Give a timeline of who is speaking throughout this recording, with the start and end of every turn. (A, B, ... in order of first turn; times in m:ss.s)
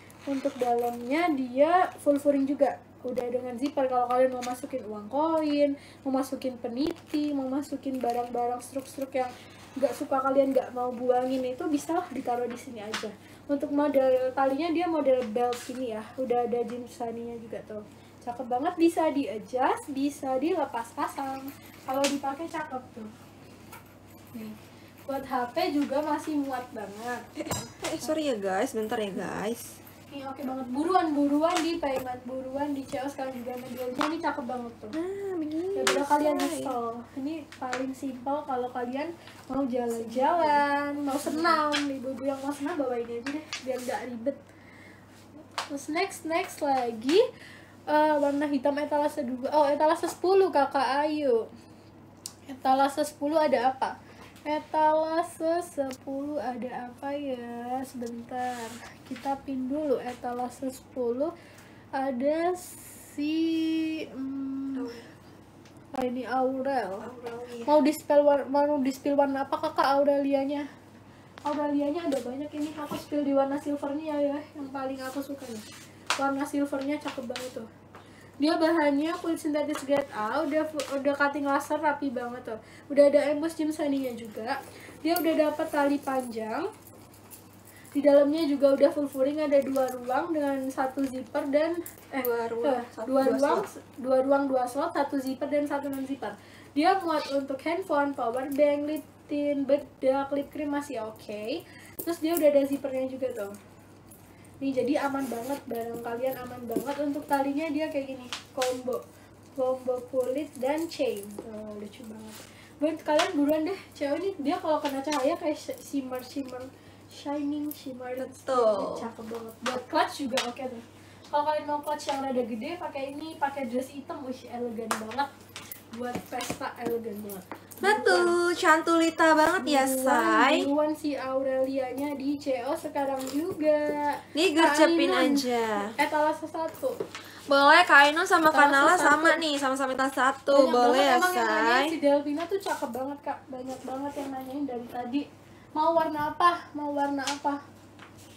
0:00.3-0:23.1 A
0:24.3-0:28.1 A
0:27.4-0:29.7 B
0:30.1-0:35.0 A
0:34.9-0:36.7 B
0:35.8-0:44.4 A
0:39.9-0:40.6 B
0:41.2-0:41.6 B
0:45.7-0:47.2 A
0:47.9-0:51.5 A
0:52.5-0:54.0 A
0:54.5-1:01.3 A
1:02.0-1:04.9 A
1:04.7-1:05.1 B
1:05.9-1:07.1 A
1:07.0-1:07.7 B
1:07.7-1:10.7 A
1:11.4-1:15.6 A
1:16.2-1:17.7 A
1:18.4-1:26.7 A
1:27.9-1:43.5 A
1:32.2-1:33.7 B
1:44.6-1:49.0 A
1:49.6-2:05.3 A
1:58.2-1:59.1 B
2:05.9-2:08.4 A
2:07.8-2:10.7 B
2:09.6-2:17.0 A
2:14.3-2:15.9 B
2:17.5-2:21.9 B
2:18.5-2:19.4 A
2:20.5-2:27.6 A